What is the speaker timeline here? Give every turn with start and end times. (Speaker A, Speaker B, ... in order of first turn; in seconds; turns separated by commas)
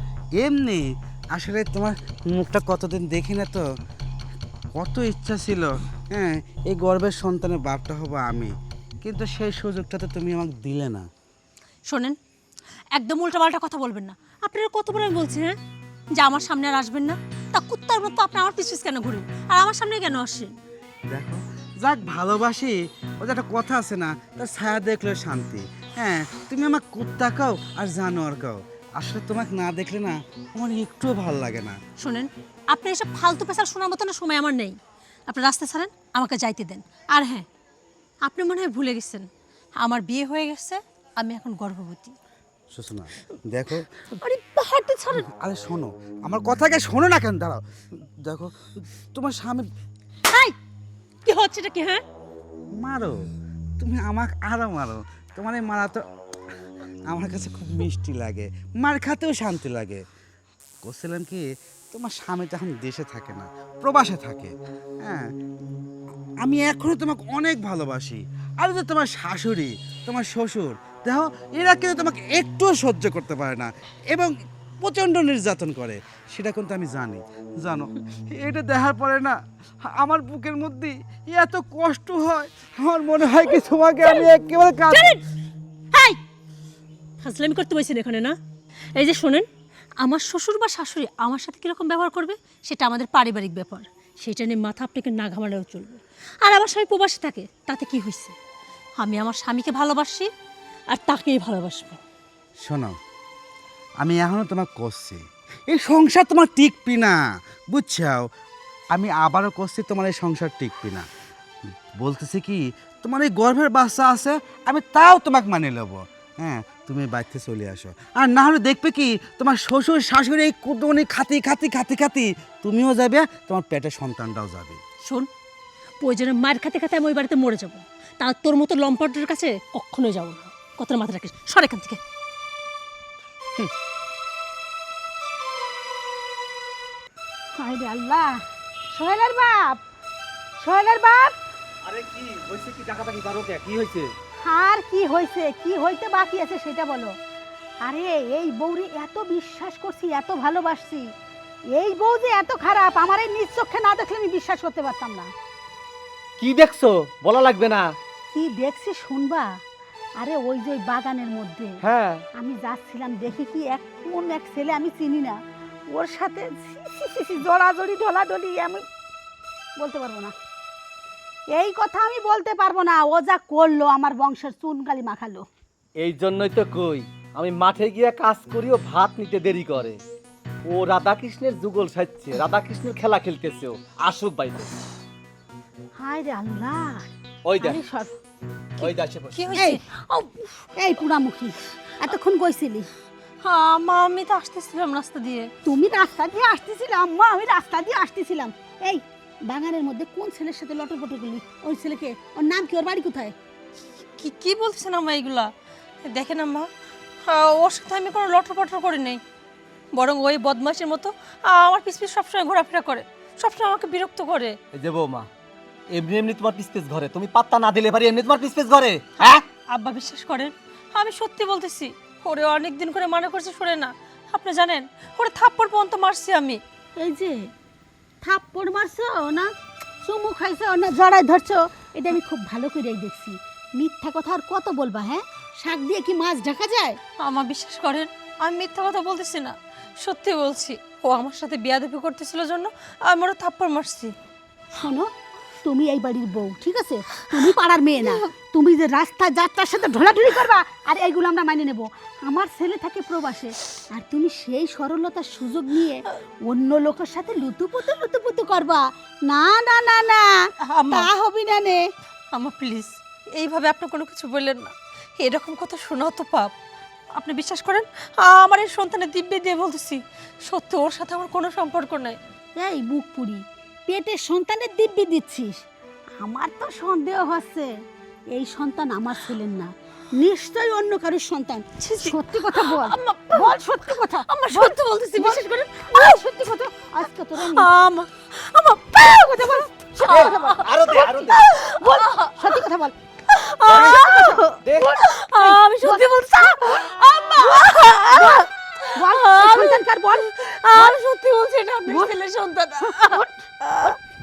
Speaker A: 0.4-3.6, Speaker A: 4.8-11.1, Speaker B: 11.9-12.2, Speaker B: 12.9-15.5, Speaker B: 16.1-20.5, Speaker A: 21.1-31.8, Speaker B: 32.0-37.5, Speaker B: 38.2-39.3, Speaker B: 39.8-42.1, Speaker A: 42.7-43.9, Speaker B: 44.2-45.2, Speaker A: 45.2-47.6, Speaker A: 48.2-49.7, Speaker B: 50.3-50.5, Speaker B: 51.2-52.0, Speaker A: 52.8-53.2, Speaker A: 53.8-56.0, Speaker A: 57.1-60.0, Speaker A: 60.8-65.3, Speaker A: 66.4-85.2, Speaker B: 84.9-85.2, Speaker B: 87.2-88.4, Speaker B: 88.9-89.5, Speaker B: 90.0-98.3, Speaker B: 99.0-100.3, Speaker B: 100.9-102.0, Speaker A: 102.6-103.0, Speaker A: 104.0-108.3, Speaker A: 108.9-111.0, Speaker A: 112.0-124.8, Speaker B: 126.0-132.0, Speaker C: 137.6-139.8, Speaker C: 140.6-141.3, Speaker D: 141.8-144.1, Speaker C: 144.4-147.1, Speaker C: 147.8-151.1, Speaker C: 151.7-155.3, Speaker D: 156.4-157.9, Speaker C: 158.3-159.6, Speaker C: 160.2-161.8, Speaker D: 161.8-162.2, Speaker C: 162.3-165.4, Speaker C: 165.9-168.8, Speaker C: 169.8-170.3, Speaker C: 171.5-175.4, Speaker D: 176.0-180.0, Speaker D: 180.7-184.7, Speaker C: 186.0-188.2, Speaker D: 187.4-187.8, Speaker D: 188.8-189.4, Speaker B: 188.8-189.8, Speaker C: 189.5-190.0, Speaker C: 190.8-192.9, Speaker B: 193.4-195.5, Speaker C: 195.6-203.3, Speaker B: 204.2-205.5, Speaker B: 206.1-206.7, Speaker B: 207.3-209.2, Speaker B: 209.9-214.6, Speaker D: 214.7-215.3, Speaker D: 215.9-219.4, Speaker B: 219.7-226.6, Speaker C: 227.0-227.5, Speaker C: 228.2-229.5, Speaker C: 230.0-237.0, Speaker B: 237.2-244.1, Speaker C: 244.8-245.1, Speaker C: 245.6-261.8, Speaker B: 260.6-261.1, Speaker B: 262.3-266.5, Speaker B: 267.1-272.2, Speaker C: 272.6-275.6, Speaker C: 276.2-277.7, Speaker C: 278.3-287.7, Speaker B: 281.8-283.6, Speaker B: 284.2-286.2, Speaker B: 287.4-292.6, Speaker C: 289.0-292.9, Speaker D: 290.1-291.4, Speaker B: 293.3-303.9, Speaker D: 293.7-294.0, Speaker C: 293.7-296.0, Speaker D: 294.6-295.0, Speaker C: 297.4-300.9, Speaker C: 302.9-303.9